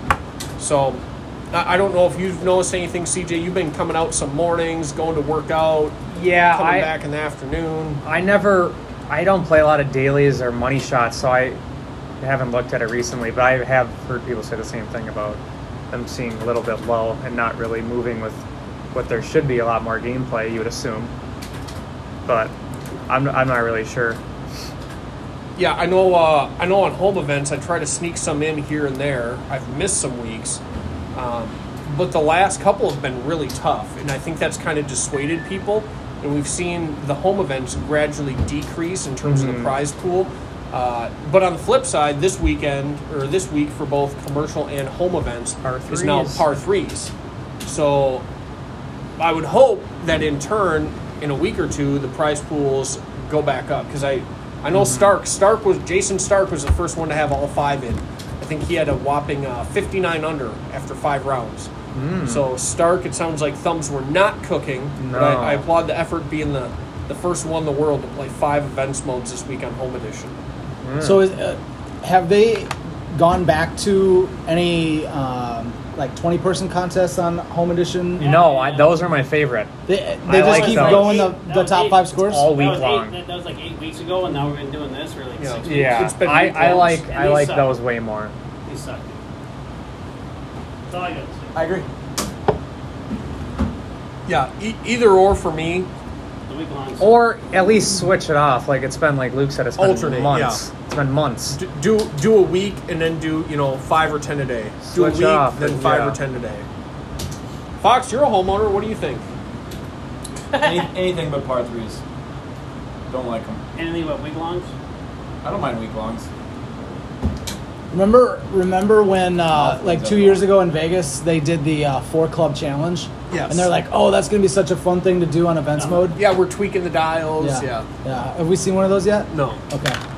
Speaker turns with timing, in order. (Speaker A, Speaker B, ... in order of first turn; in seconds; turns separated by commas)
Speaker A: 0.6-8.0, Speaker B: 6.1-6.9, Speaker B: 8.0-11.6, Speaker B: 12.2-18.4, Speaker B: 18.9-21.1, Speaker B: 22.3-22.5, Speaker B: 23.1-24.2, Speaker A: 25.6-30.6, Speaker A: 31.1-47.1, Speaker B: 39.2-39.8, Speaker B: 45.6-46.4, Speaker A: 47.6-48.3, Speaker A: 49.2-61.7, Speaker B: 54.7-55.1, Speaker B: 61.9-62.5, Speaker A: 62.3-70.4, Speaker B: 65.0-65.7, Speaker B: 70.8-71.3, Speaker C: 71.0-78.3, Speaker D: 78.2-79.1, Speaker B: 78.2-79.7, Speaker C: 79.9-82.5, Speaker B: 80.3-81.3, Speaker D: 80.3-87.8, Speaker B: 82.2-83.2, Speaker A: 85.4-87.0, Speaker B: 85.7-88.3, Speaker D: 88.7-89.2, Speaker D: 90.9-91.8, Speaker C: 91.5-91.9, Speaker A: 94.3-95.9, Speaker D: 96.5-97.2, Speaker B: 97.0-101.6, Speaker A: 99.8-100.6, Speaker A: 101.5-106.7, Speaker B: 104.8-106.2, Speaker A: 107.8-109.3, Speaker D: 110.5-110.9, Speaker E: 110.6-112.0, Speaker E: 113.1-113.6, Speaker D: 113.8-114.7, Speaker E: 115.4-116.3, Speaker C: 117.9-126.2, Speaker E: 119.5-120.5, Speaker A: 123.3-123.7, Speaker D: 125.8-126.1, Speaker A: 126.2-127.9, Speaker C: 127.4-130.0, Speaker A: 129.3-129.6